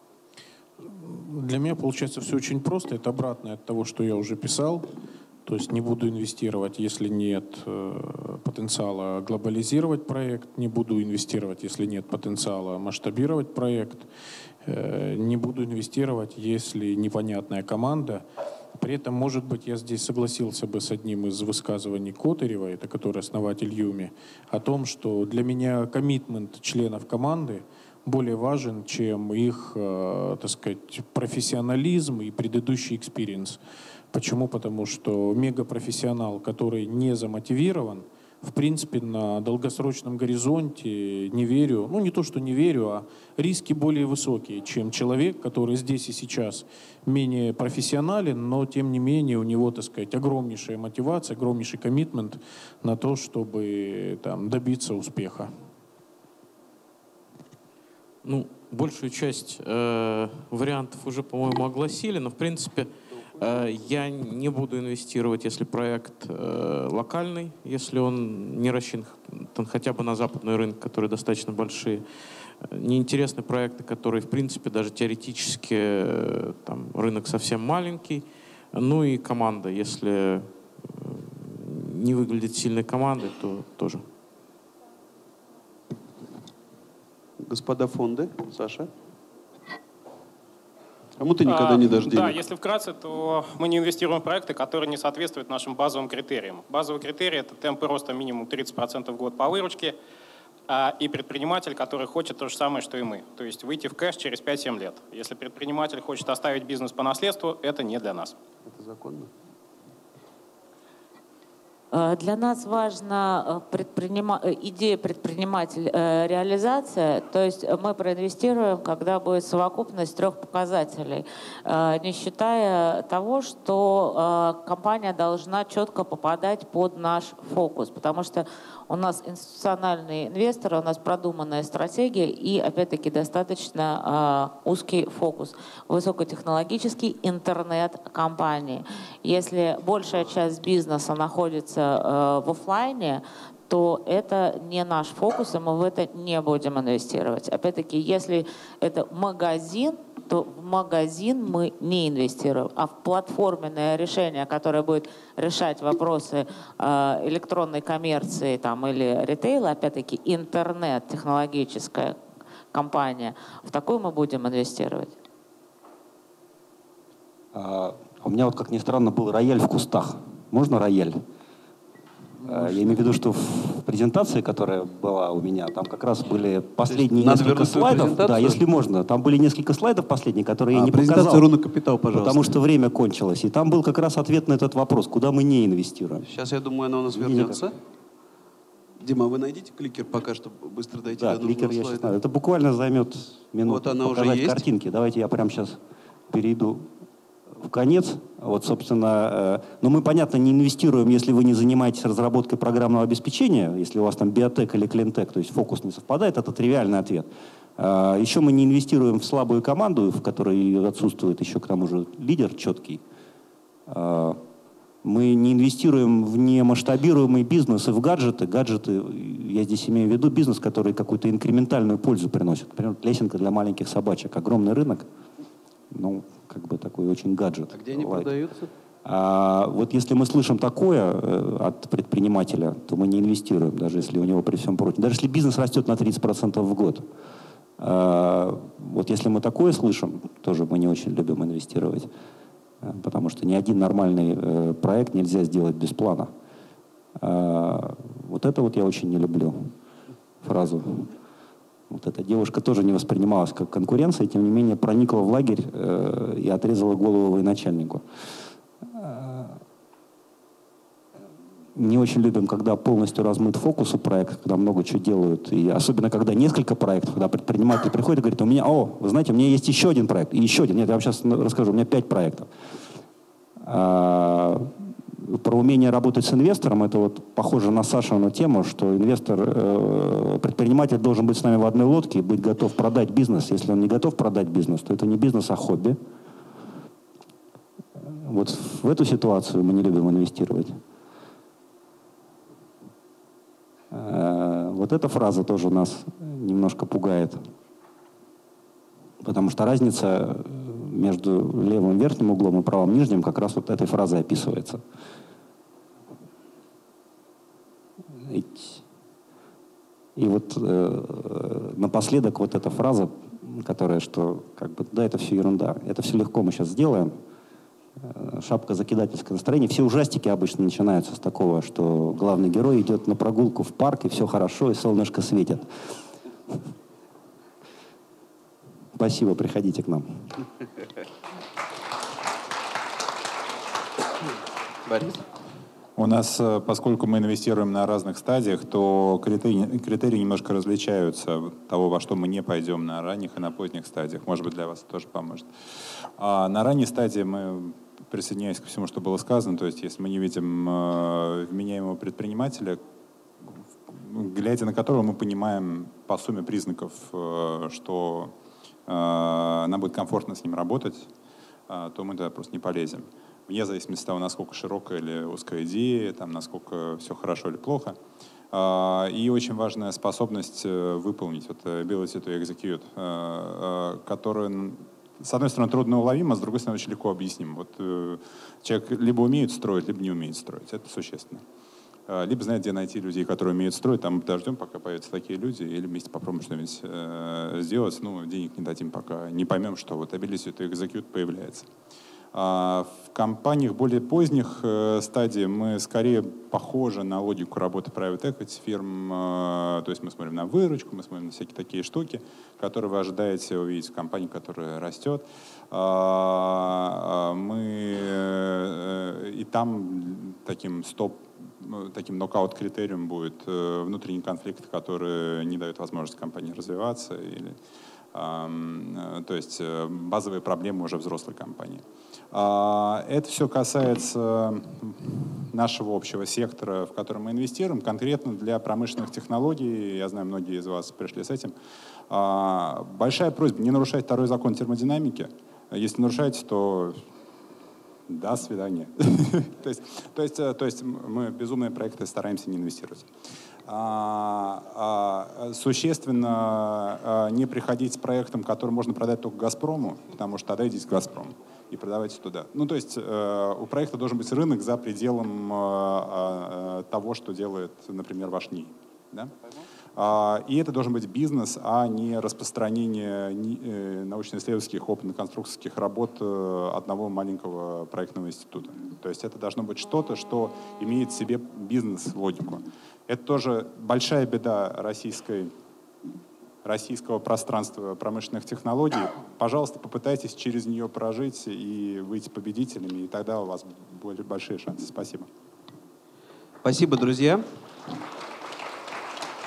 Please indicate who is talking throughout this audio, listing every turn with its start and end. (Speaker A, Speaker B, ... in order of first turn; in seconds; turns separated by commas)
Speaker A: 0.8-4.9, Speaker A: 5.5-14.1, Speaker A: 14.7-18.2, Speaker A: 18.8-33.6, Speaker A: 34.1-55.5, Speaker B: 58.2-72.0, Speaker B: 72.6-84.1, Speaker C: 87.4-88.9, Speaker C: 91.2-92.4, Speaker D: 91.5-100.0, Speaker D: 100.7-108.3, Speaker C: 108.7-109.3, Speaker E: 111.9-162.2, Speaker E: 162.7-165.2, Speaker F: 167.5-171.2, Speaker F: 172.4-181.5, Speaker C: 176.9-178.6, Speaker C: 180.7-182.5, Speaker F: 182.1-186.3, Speaker C: 186.3-187.7, Speaker F: 187.1-187.7, Speaker C: 189.0-192.1, Speaker F: 191.1-195.8, Speaker C: 193.7-194.7, Speaker F: 196.3-196.9, Speaker F: 197.6-213.0, Speaker F: 213.9-214.4, Speaker F: 215.0-225.1, Speaker F: 225.9-228.3, Speaker C: 227.7-228.7, Speaker F: 229.1-237.1, Speaker F: 237.8-242.1, Speaker F: 242.8-246.3, Speaker F: 247.2-249.7, Speaker F: 250.4-251.1, Speaker F: 251.9-258.0, Speaker F: 258.9-259.6, Speaker F: 261.8-272.5, Speaker F: 273.6-286.0, Speaker F: 288.0-290.8, Speaker F: 293.9-297.4, Speaker F: 299.2-304.8, Speaker F: 308.2-308.8, Speaker F: 310.2-317.1, Speaker F: 318.0-325.7, Speaker F: 329.0-330.3, Speaker C: 334.9-335.2, Speaker G: 336.0-345.5, Speaker G: 346.2-352.8, Speaker G: 353.9-358.3, Speaker G: 358.9-361.1, Speaker G: 361.7-368.0, Speaker G: 368.5-381.4, Speaker G: 382.1-391.7, Speaker G: 392.3-417.6, Speaker G: 418.1-431.5, Speaker G: 432.1-437.0, Speaker G: 438.1-443.1, Speaker G: 443.7-459.3, Speaker G: 459.9-475.5, Speaker G: 476.6-485.3, Speaker C: 486.6-487.4